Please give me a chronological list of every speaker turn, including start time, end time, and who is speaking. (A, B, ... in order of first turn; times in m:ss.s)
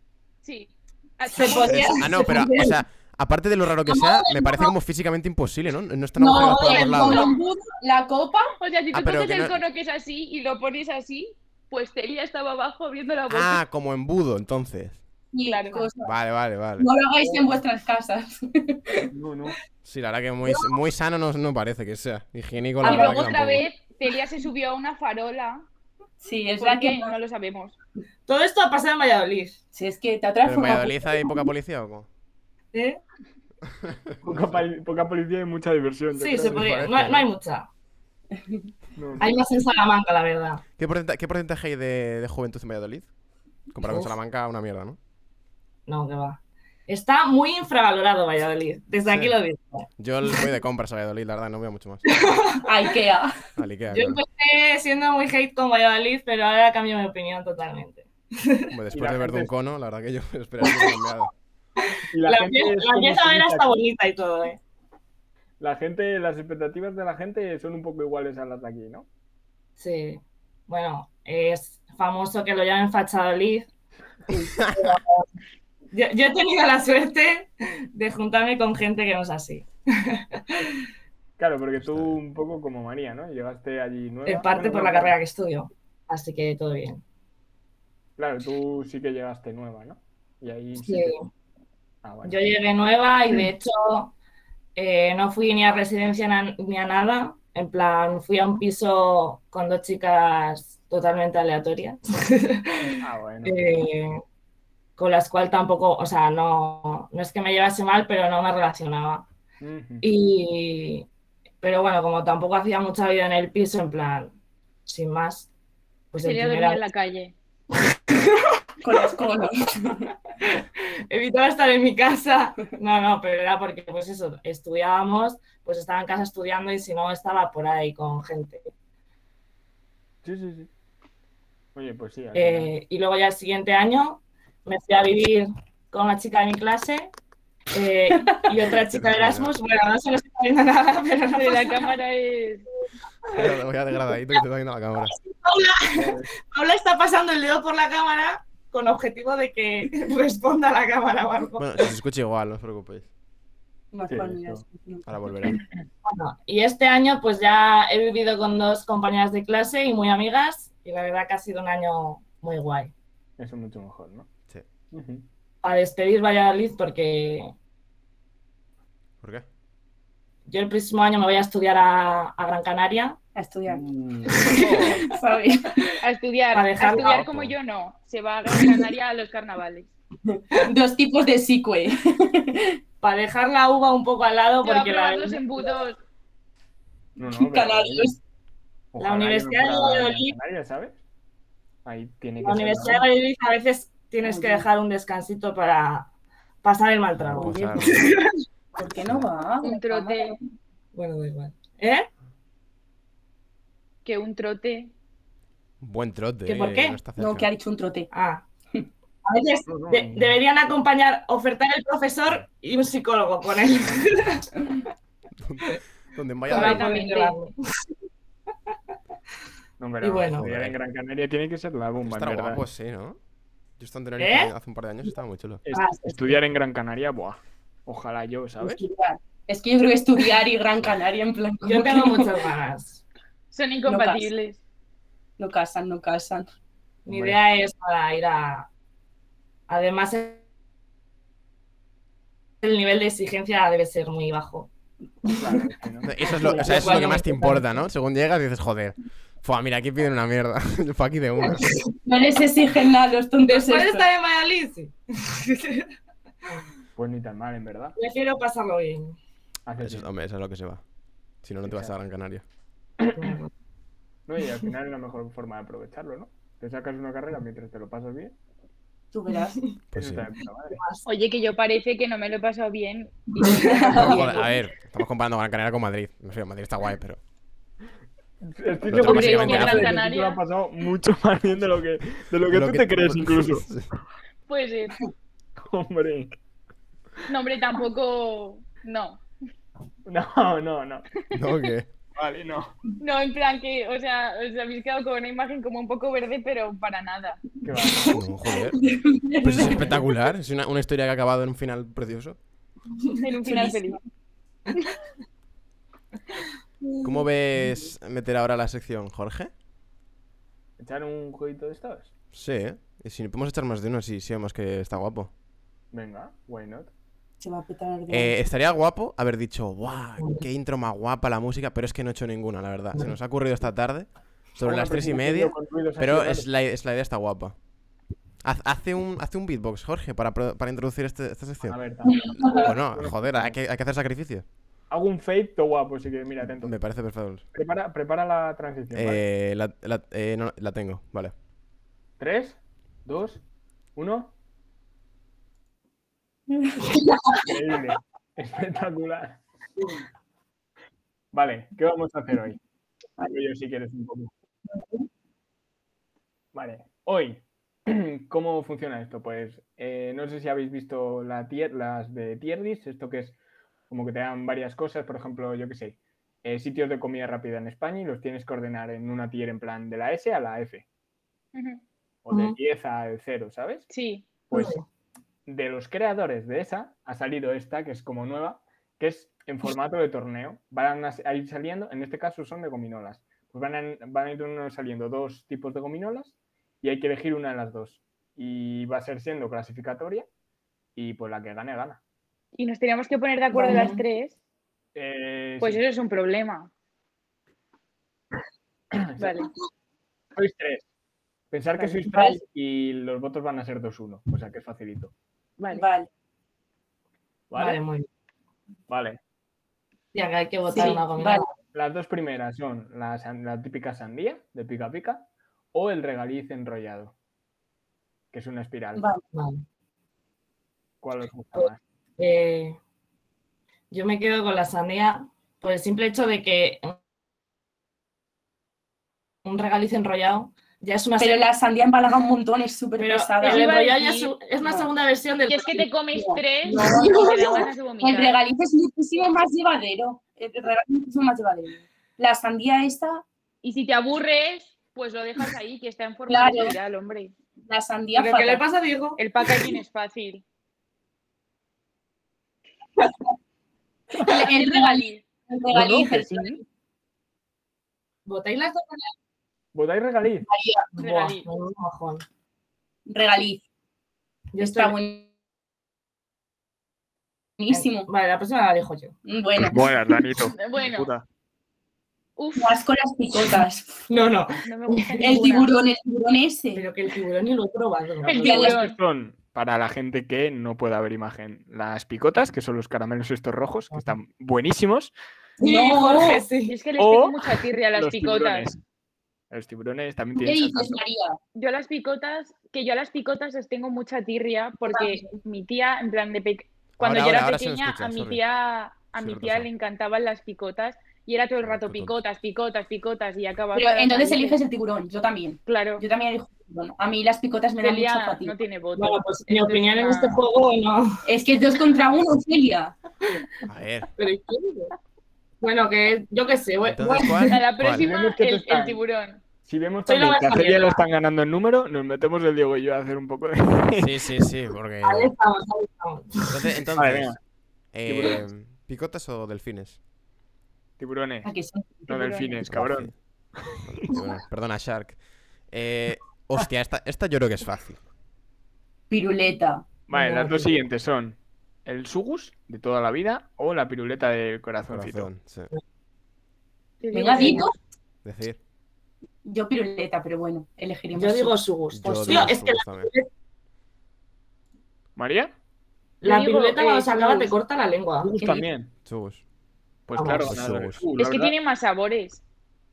0:00.4-0:02.3 A
0:01.3-0:02.8 B
0:01.7-0:07.2 C
0:03.9-0:04.7 B
0:06.2-0:08.5 D
0:06.3-0:07.3 B
0:08.6-0:13.6 A
0:08.9-0:09.6 C
0:13.3-0:15.0 C
0:15.3-0:16.2 D
0:15.5-0:15.8 A
0:16.0-0:16.9 C
0:16.8-0:19.1 D
0:17.2-0:17.5 E
0:19.1-0:19.6 E
0:19.8-0:23.7 C
0:22.8-0:25.6 A
0:22.8-0:23.1 D
0:26.2-0:27.1 D
0:26.6-0:27.7 A
0:28.3-0:29.6 B
0:29.7-0:31.4 D
0:30.4-0:32.1 C
0:32.7-0:33.0 B
0:33.9-0:34.6 C
0:34.2-0:36.9 E
0:36.2-0:37.7 B
0:36.4-0:37.2 C
0:38.4-0:38.7 D
0:39.0-0:39.3 E
0:39.2-0:40.6 B
0:40.8-0:43.1 C
0:43.7-0:45.0 C
0:43.8-0:44.1 B
0:45.9-0:50.4 B
0:49.1-0:49.3 C
0:50.0-0:52.3 C
0:52.1-0:52.6 B
0:52.6-0:53.4 D
0:53.6-0:54.2 C
0:53.9-0:58.7 B
0:58.7-1:01.3 C
0:58.9-0:59.5 E
1:00.6-1:01.0 B
1:01.8-1:04.6 B
1:02.1-1:03.7 E
1:05.6-1:09.1 E
1:09.8-1:13.7 B
1:14.3-1:14.5 D
1:14.6-1:14.9 C
1:15.9-1:20.7 B
1:21.4-1:25.1 E
1:21.8-1:22.2 C
1:24.2-1:27.0 B
1:28.2-1:31.2 E
1:30.8-1:31.3 B
1:32.0-1:32.4 E
1:32.2-1:34.1 B
1:34.8-1:44.2 B
1:43.0-1:43.8 E
1:45.0-1:49.3 B
1:49.6-1:50.0 E
1:50.0-1:51.1 B
1:51.6-1:54.3 B
1:54.9-1:55.5 B
1:56.1-1:56.8 B
1:56.2-1:57.3 A
1:58.1-1:58.5 B
1:58.8-2:00.1 D
2:00.4-2:08.7 B
2:10.2-2:10.7 E
2:11.7-2:12.7 E
2:12.4-2:17.1 B
2:17.7-2:21.9 B
2:18.7-2:19.5 C
2:21.4-2:22.6 A
2:23.2-2:23.5 B
2:23.3-2:25.1 C
2:25.1-2:31.9 B
2:25.9-2:26.3 E
2:31.6-2:33.1 C
2:33.9-2:35.1 D
2:34.1-2:34.6 E
2:35.1-2:35.6 C
2:36.0-2:42.9 B
2:43.4-2:44.3 E
2:44.9-2:45.2 E
2:45.6-2:47.5 B
2:50.5-2:53.2 B
2:53.4-2:55.8 D
2:53.7-2:54.5 E
2:54.5-2:55.1 C
2:56.0-2:59.9 A
2:56.5-2:57.2 B
2:56.9-2:57.6 C
3:00.3-3:02.8 D
3:03.0-3:05.7 B
3:04.6-3:06.0 A
3:07.2-3:08.2 E
3:07.2-3:08.2 D
3:08.9-3:11.0 E
3:09.0-3:10.4 B
3:11.8-3:13.0 E
3:12.4-3:16.1 B
3:14.2-3:14.7 D
3:16.6-3:18.3 B
3:17.2-3:18.1 C
3:17.3-3:18.0 D
3:18.8-3:20.4 D
3:19.0-3:19.3 C
3:19.6-3:20.4 A
3:20.9-3:22.1 B
3:24.0-3:24.9 A
3:25.8-3:27.5 C
3:26.4-3:27.0 B
3:27.2-3:28.1 D
3:28.1-3:28.4 B
3:29.2-3:34.8 B
3:29.7-3:30.4 E
3:35.4-3:36.9 C
3:36.5-3:37.6 B
3:36.5-3:37.4 A
3:39.8-3:42.6 E
3:40.0-3:40.5 B
3:40.4-3:40.8 C
3:42.0-3:43.2 C
3:43.8-3:45.6 C
3:44.2-3:44.5 B
3:45.6-3:48.8 E
3:45.7-3:46.4 B
3:48.6-3:52.4 D
3:51.6-3:53.0 B
3:53.5-3:54.6 A
3:53.9-3:54.3 D
3:55.4-3:56.5 D
3:57.1-3:58.7 B
3:57.1-3:57.4 E
3:59.7-4:00.4 B
4:02.6-4:04.7 B
4:05.4-4:07.1 E
4:06.0-4:11.8 C
4:06.3-4:07.6 B
4:06.9-4:07.2 D
4:12.0-4:14.1 D
4:13.5-4:15.9 B
4:17.0-4:17.9 E
4:18.0-4:19.2 B
4:19.6-4:20.1 E
4:19.8-4:20.8 C
4:21.4-4:22.4 C
4:21.6-4:21.9 E
4:23.0-4:23.4 E
4:23.2-4:23.5 B
4:24.3-4:28.4 E
4:29.1-4:29.6 D
4:29.9-4:30.3 C
4:29.9-4:30.8 E
4:30.7-4:31.0 B
4:31.0-4:34.4 A
4:33.4-4:34.5 D
4:33.4-4:34.3 B
4:33.9-4:37.2 C
4:38.4-4:43.7 E
4:38.9-4:40.0 C
4:39.0-4:40.4 A
4:42.4-4:43.9 C
4:44.5-4:44.9 A
4:45.6-4:46.3 E
4:47.3-4:49.2 A
4:50.0-4:51.2 E
4:51.3-4:51.9 C
4:52.1-4:52.7 E
4:53.0-4:57.4 A
4:57.6-4:58.2 E
4:58.1-4:58.9 C
4:58.7-5:00.1 D
4:59.4-5:02.4 C
5:03.2-5:04.0 A
5:03.4-5:04.0 D
5:07.0-5:09.5 C
5:10.8-5:12.1 E
5:12.3-5:15.3 C
5:15.9-5:16.9 E
5:17.4-5:18.4 D
5:18.1-5:27.6 C
5:20.2-5:20.4 B
5:24.6-5:26.5 E
5:28.4-5:31.8 C
5:31.7-5:33.6 E
5:32.3-5:32.6 D
5:32.4-5:34.4 C
5:34.9-5:36.7 E
5:36.6-5:37.5 C
5:37.5-5:39.2 E
5:38.9-5:41.3 C
5:42.2-5:43.4 E
5:43.9-5:44.3 E
5:46.6-5:47.4 D
5:47.4-5:49.4 E
5:51.3-5:52.6 E
5:53.2-5:54.3 E
5:54.8-5:55.0 D
5:56.5-6:03.4 E
6:03.9-6:10.8 E
6:11.5-6:11.8 A
6:12.2-6:13.9 E
6:12.3-6:12.6 B
6:13.9-6:14.3 A
6:14.5-6:14.8 E
6:14.5-6:14.8 B
6:15.4-6:30.3 E
6:30.9-6:32.0 E
6:32.6-6:34.3 A
6:33.5-6:34.0 D
6:33.6-6:33.9 B
6:34.9-6:35.8 E
6:35.6-6:36.7 A
6:38.9-6:39.3 E
6:39.2-6:39.5 A
6:40.4-6:40.9 E
6:41.5-6:45.1 E
6:42.1-6:42.4 D
6:45.6-6:45.8 A
6:45.7-6:46.1 D
6:47.5-6:47.8 E
6:47.6-6:48.1 B
6:48.9-6:49.2 E
6:50.1-6:51.4 B
6:50.7-6:51.5 D
6:51.7-6:57.1 E
6:58.3-6:59.1 E
6:59.0-6:59.2 D
6:59.3-6:59.6 B
7:01.0-7:01.8 E
7:01.6-7:02.8 B
7:03.9-7:07.0 B
7:09.4-7:11.5 B
7:11.2-7:13.8 D
7:13.0-7:15.9 B
7:13.4-7:14.4 A
7:14.6-7:14.9 D
7:15.5-7:18.4 A
7:16.1-7:23.2 D
7:16.7-7:17.6 B
7:23.6-7:27.3 A
7:26.3-7:26.8 D
7:27.6-7:28.6 D
7:28.1-7:29.7 B
7:29.2-7:30.4 A
7:34.2-7:36.6 D
7:34.3-7:35.2 A
7:35.7-7:36.6 E
7:38.2-7:39.1 B
7:39.7-7:40.5 E
7:40.5-7:40.9 D
7:41.0-7:42.2 B
7:41.0-7:41.5 A
7:43.1-7:43.6 D
7:44.5-7:45.0 B
7:44.6-7:45.3 D
7:47.6-7:48.1 D
7:47.7-7:49.2 B
7:49.2-7:50.0 D
7:49.6-7:51.2 E
7:50.6-7:51.1 A
7:52.4-7:52.7 A
7:52.6-7:54.1 D
7:54.1-7:55.3 B
7:54.6-7:55.7 A
7:55.2-7:56.8 D
7:56.7-7:58.8 B
7:58.2-7:59.0 A
7:58.2-8:05.1 E
7:58.4-7:58.8 D
8:05.6-8:06.8 B
8:05.6-8:06.4 D
8:06.6-8:08.7 A
8:07.0-8:08.8 E
8:09.5-8:11.0 E
8:10.4-8:11.4 D
8:11.6-8:24.6 A
8:14.9-8:15.3 D
8:17.0-8:18.4 C
8:19.2-8:19.7 C
8:21.6-8:22.2 C
8:23.7-8:28.6 D
8:25.6-8:26.0 A
8:27.8-8:30.4 A
8:29.0-8:31.2 B
8:31.2-8:32.9 D
8:33.6-8:34.1 C
8:34.2-8:34.9 B
8:35.6-8:37.6 B
8:36.8-8:38.1 C
8:37.5-8:39.4 A
8:37.9-8:39.0 E
8:39.6-8:44.4 E
8:40.1-8:41.0 B
8:44.0-8:45.3 C
8:45.0-8:46.8 B
8:46.5-8:47.3 C
8:47.0-8:47.4 E
8:47.9-8:50.0 C
8:48.0-8:48.4 E
8:51.0-8:51.5 E
8:51.4-8:52.2 D
8:52.1-8:54.0 E
8:52.1-8:52.6 A
8:52.7-8:53.1 C
8:53.8-8:55.2 C
8:55.7-8:58.0 C
8:59.1-8:59.9 D
9:00.1-9:05.3 E
9:00.1-9:00.7 B
9:04.9-9:05.7 C
9:07.0-9:07.7 A
9:07.1-9:07.7 D
9:08.2-9:08.6 C
9:09.4-9:11.6 D
9:11.1-9:13.3 B
9:11.9-9:13.1 C
9:15.2-9:15.5 E
9:16.2-9:18.3 B
9:16.2-9:17.5 A
9:18.2-9:18.9 E
9:18.4-9:18.6 D
9:19.1-9:19.4 C
9:20.1-9:21.5 E
9:20.1-9:20.5 B
9:20.4-9:21.1 C
9:21.2-9:22.4 A